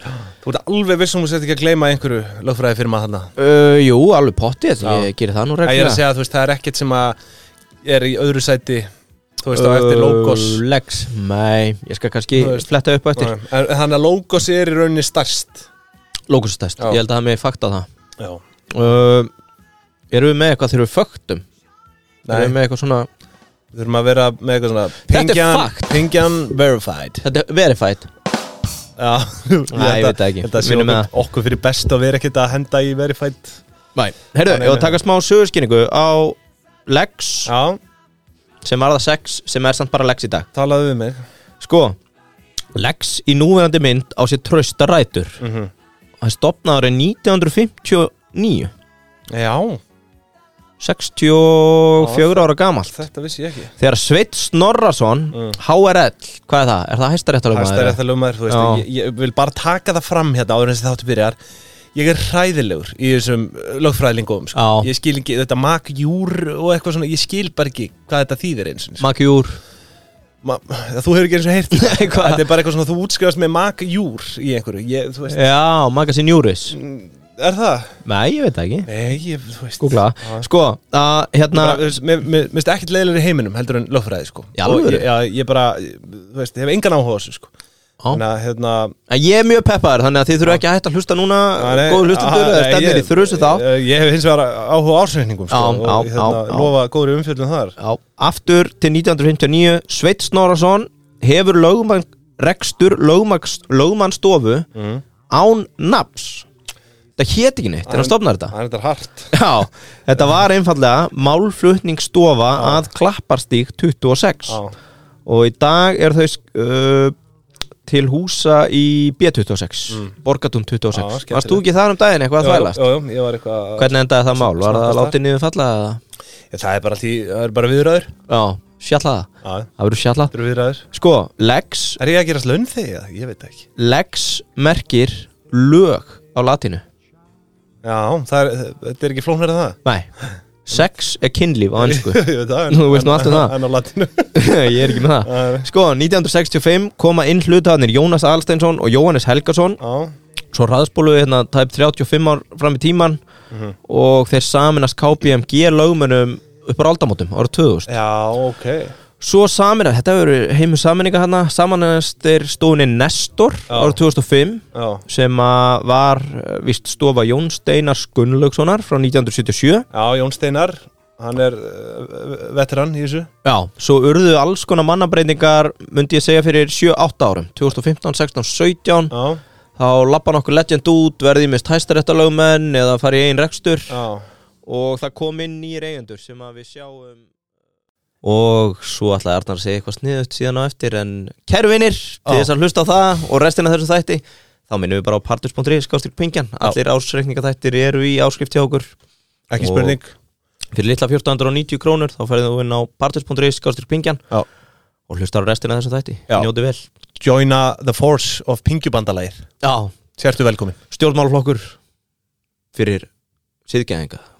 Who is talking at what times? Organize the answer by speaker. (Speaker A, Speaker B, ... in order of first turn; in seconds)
Speaker A: 0.4-3.3, 4.8-5.1, 5.6-7.2, 7.8-8.9, 9.4-10.6, 12.3-15.7, 22.2-22.6, 23.7-27.2, 29.0-33.6, 34.5-35.0, 37.5-37.8, 40.5-41.2, 45.4-45.7, 49.3-49.8, 52.0-53.7, 57.5-61.4, 62.0-69.1, 70.4-75.4, 76.7-77.9, 78.9-80.5, 81.5-87.5, 88.1-88.9, 91.6-97.7, 104.8-105.0, 107.9-109.3, 112.6-112.8, 114.5-114.7, 120.9-121.6, 122.4-125.2, 126.5-128.1, 129.4-129.7, 130.3-130.8, 132.0-133.7, 137.8-139.8, 141.8-145.7, 149.8-150.1, 153.5-153.8, 157.9-158.9, 163.7-164.0, 164.7-165.0, 169.9-173.3, 179.1-179.4, 183.9-184.2, 199.5-200.1, 207.2-209.4, 210.2-210.8
Speaker B: 3.4-6.0, 9.5-13.3, 16.3-17.9, 18.7-19.3, 20.1-21.4, 22.3-23.1, 25.1-26.0, 27.2-28.1, 29.7-31.1, 34.0-37.5, 38.6-40.5, 41.6-42.0, 42.8-45.4, 46.2-48.7, 50.8-53.0, 53.8-58.8, 64.5-64.9, 69.0-69.6, 71.7-72.4, 75.3-76.8, 78.0-78.9, 79.8-82.0, 84.6-85.1, 89.1-93.6, 95.5-96.7, 97.8-104.7, 105.3-106.5, 107.2-108.5, 109.3-114.6, 115.3-117.1, 117.9-122.8, 123.8-126.0, 128.3-130.3, 130.9-132.0, 133.8-136.8, 140.7-143.5, 144.3-149.8, 150.5-153.2, 153.9-157.9, 159.2-169.8, 173.4-179.1, 179.8-183.9, 184.7-187.2, 188.2-198.9, 199.6-200.0, 200.7-204.2, 205.1-206.8, 209.6-209.9, 210.9-211.8, 212.7-213.1, 213.7-214.2